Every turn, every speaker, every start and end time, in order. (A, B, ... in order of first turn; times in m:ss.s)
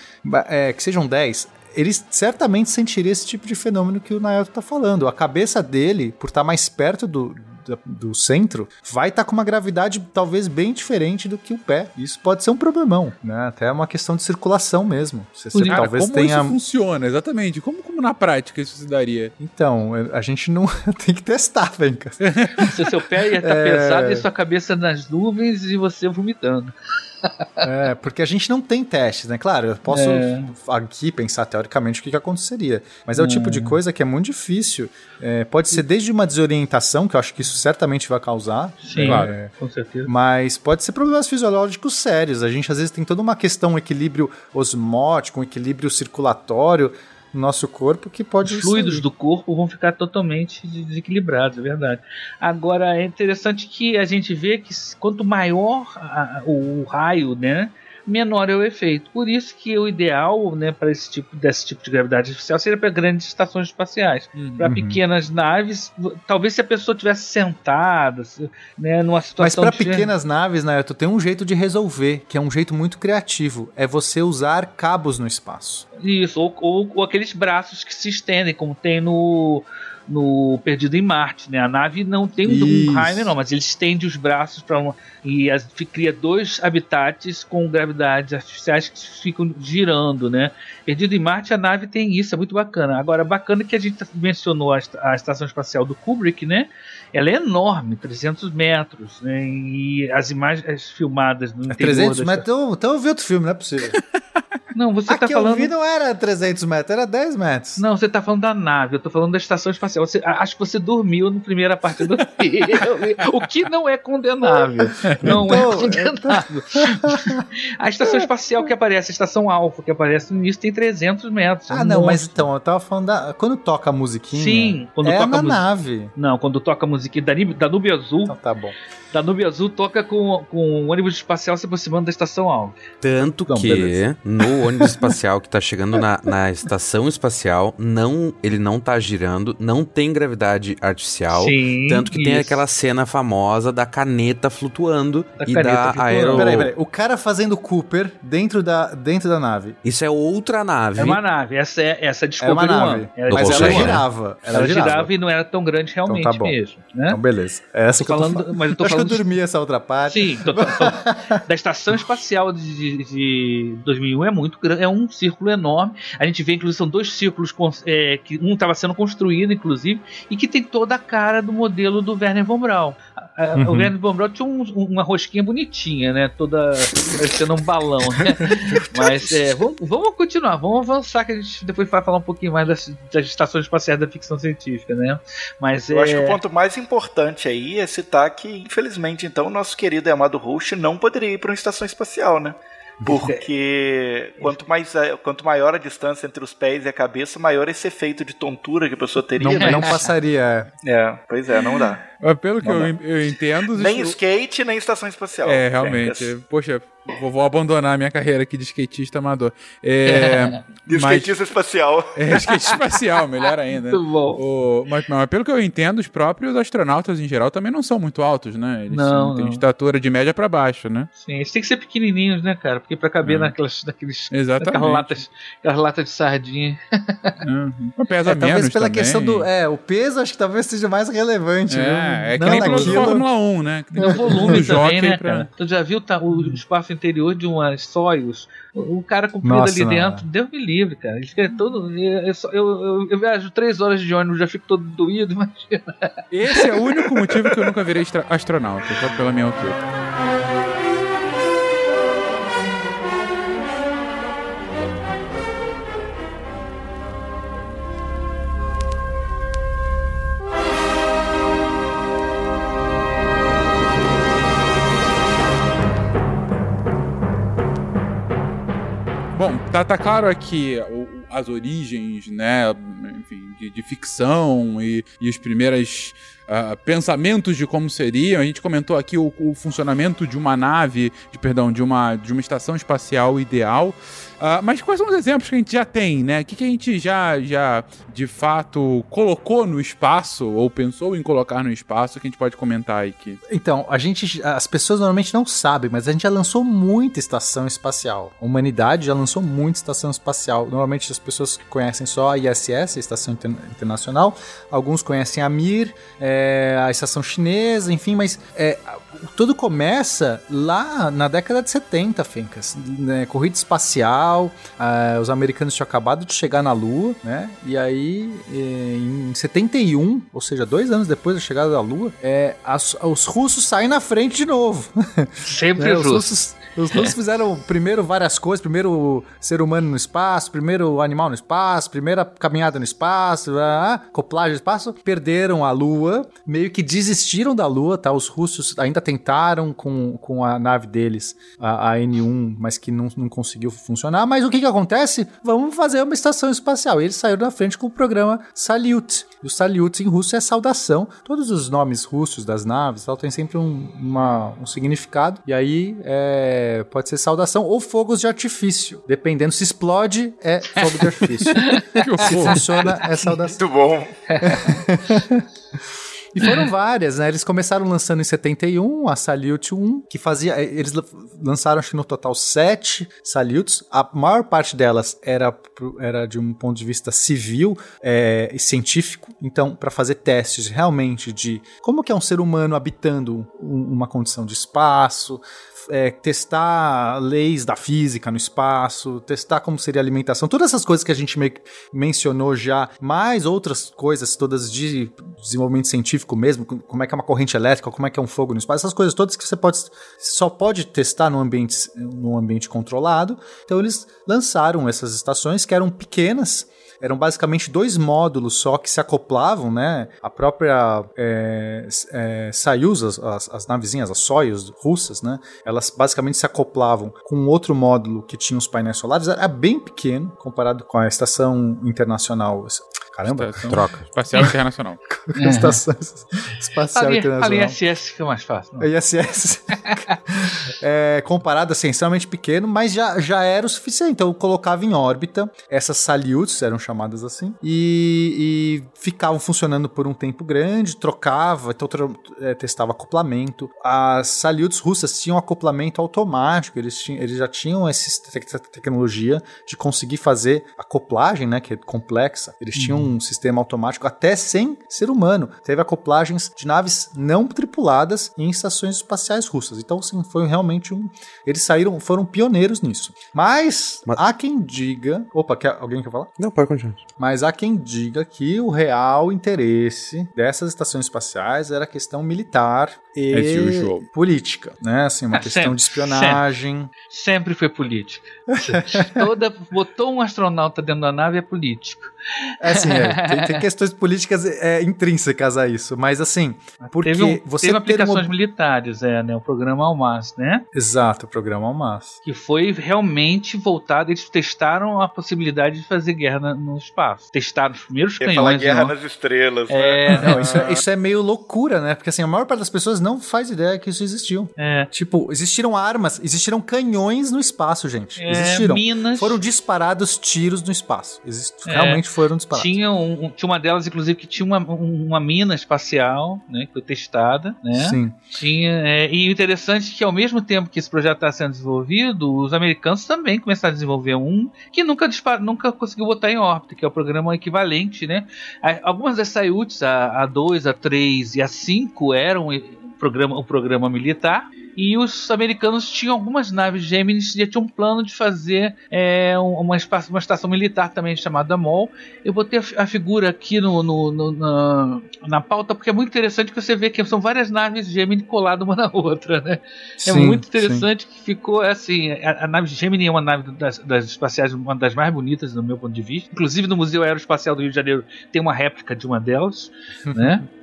0:00.2-0:16.6 A
0:15.5-0:15.8 B
0:15.6-0:19.3 C
0:19.4-0:22.7 A
0:22.2-0:22.6 C
0:22.6-0:26.7 B
0:23.4-0:24.2 A
0:27.2-0:27.6 B
0:27.6-0:39.5 A
0:29.9-0:30.5 B
0:33.2-0:33.8 B
0:38.8-0:40.1 B
0:39.0-0:39.3 C
0:40.0-0:49.0 A
0:48.4-1:10.1 B
1:04.6-1:05.0 A
1:09.4-1:15.8 A
1:16.0-1:42.4 B
1:22.4-1:23.3 A
1:41.7-1:44.0 A
1:44.7-1:45.7 B
1:45.1-1:47.8 A
1:47.8-2:02.5 B
1:55.2-1:57.4 A
2:01.7-2:06.1 A
2:04.3-2:05.6 B
2:06.2-2:08.4 B
2:08.2-2:08.7 A
2:09.1-2:12.8 B
2:13.0-2:26.7 D
2:13.5-2:14.0 A
2:21.3-2:22.6 B
2:25.4-2:26.5 B
2:26.3-2:29.8 A
2:29.8-2:31.2 D
2:31.0-2:37.2 B
2:32.4-2:35.1 A
2:33.3-2:34.0 D
2:36.0-2:36.6 A
2:37.1-2:41.4 A
2:38.0-2:39.2 B
2:40.1-3:06.4 B
2:53.6-2:53.9 A
3:05.9-3:20.0 E
3:13.1-3:13.4 B
3:19.4-3:20.7 A
3:19.5-3:20.1 B
3:20.8-3:22.0 E
3:22.2-3:24.2 C
3:23.7-3:26.3 E
3:25.4-3:31.3 C
3:30.1-3:30.6 B
3:30.9-3:32.4 E
3:32.2-3:41.1 C
3:33.9-3:34.4 B
3:38.9-3:39.6 B
3:41.2-3:47.4 B
3:44.3-3:45.2 C
3:47.4-3:49.5 C
3:48.2-3:53.3 A
3:51.7-3:55.5 C
3:52.4-3:53.1 B
3:54.0-3:54.6 A
3:54.0-4:06.7 B
3:59.4-4:00.2 A
4:06.3-4:09.8 C
4:29.3-4:53.4 C
4:53.5-6:03.6 A
5:25.4-5:26.3 B
6:00.8-6:01.8 B
6:02.0-6:02.6 C
6:03.5-6:04.1 E
6:04.3-6:04.6 B
6:04.4-6:05.4 A
6:06.3-7:04.5 A
7:03.2-7:05.0 C
7:03.7-7:04.0 D
7:05.1-7:07.8 A
7:05.3-7:05.8 B
7:06.9-7:08.9 B
7:08.8-7:10.0 A
7:10.6-7:46.3 A
7:32.7-7:33.1 B
7:46.4-7:47.0 D
7:47.2-7:56.9 A
7:53.3-7:54.0 C
7:55.3-7:56.4 B
7:57.1-8:02.1 B
7:58.6-7:59.2 A
8:02.6-8:08.3 A
8:02.7-8:03.6 B
8:06.8-8:10.6 B
8:10.7-8:12.2 A
8:12.2-8:18.9 B
8:18.2-8:20.6 E
8:19.7-8:20.6 B
8:20.2-8:32.8 A
8:24.6-8:24.9 B
8:28.2-8:29.4 B
8:31.6-9:20.4 B
8:37.7-8:38.2 A
9:10.0-9:10.9 A
9:20.0-9:20.4 A